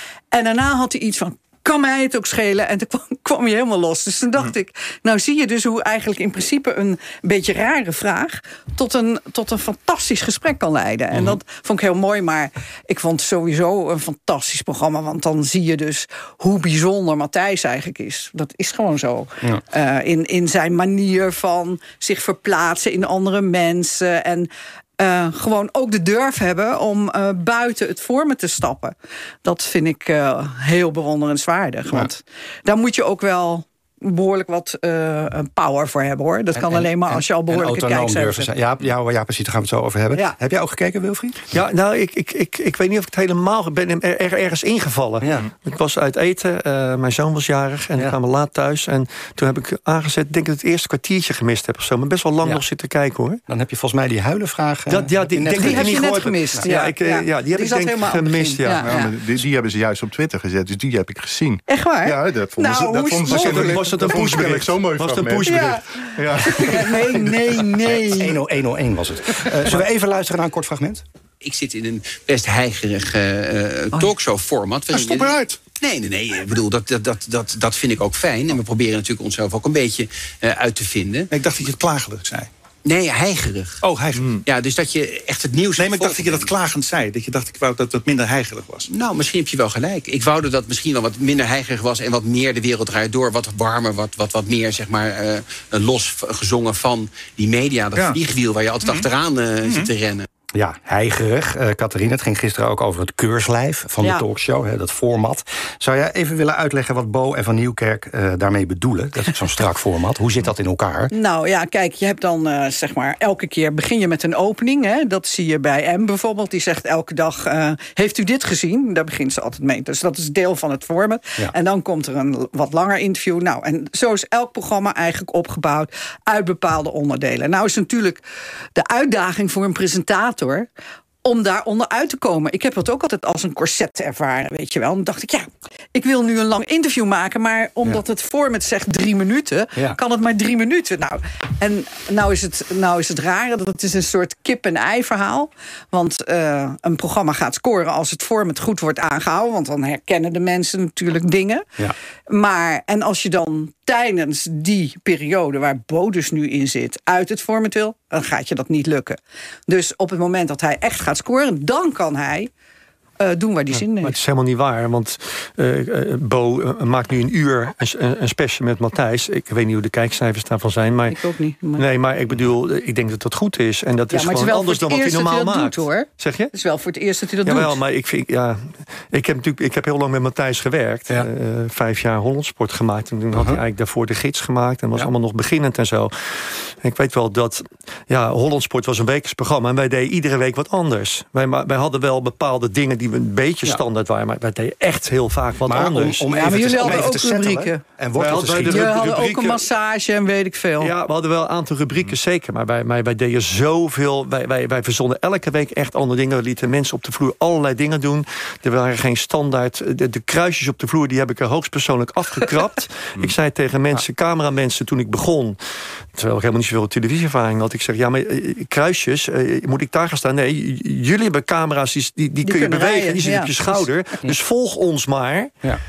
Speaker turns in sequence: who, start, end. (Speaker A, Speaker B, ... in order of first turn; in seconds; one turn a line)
Speaker A: 0.3-38.5
Speaker B: 36.5-41.5
Speaker C: 41.5-53.4
Speaker B: 45.2-45.5
Speaker B: 53.5-56.7
Speaker C: 54.9-58.9
Speaker A: 55.6-59.1
Speaker D: 58.8-67.7
Speaker A: 61.7-64.4
Speaker C: 63.3-65.8
Speaker A: 65.5-68.4
Speaker B: 67.8-71.0
Speaker E: 71.4-81.3
Speaker E: 82.8-86.6
Speaker D: 84.1-84.4
Speaker E: 88.9-100.3
Speaker B: 100.5-111.1
Speaker A: 111.1-128.2
Speaker A: 128.7-130.7
Speaker A: 131.2-151.7
Speaker A: 152.3-162.5
Speaker A: 163.2-164.2
Speaker C: 163.7-171.2
Speaker A: 171.1-171.8
Speaker C: 171.7-176.5
Speaker A: 174.1-177.8
Speaker C: 177.4-197.1
Speaker B: 183.3-183.6
Speaker B: 195.6-198.9
Speaker A: 196.3-197.8
Speaker C: 198.2-199.6
Speaker A: 198.6-200.9
Speaker C: 200.8-215.6
Speaker C: 216.1-225.6
Speaker A: 222.4-223.5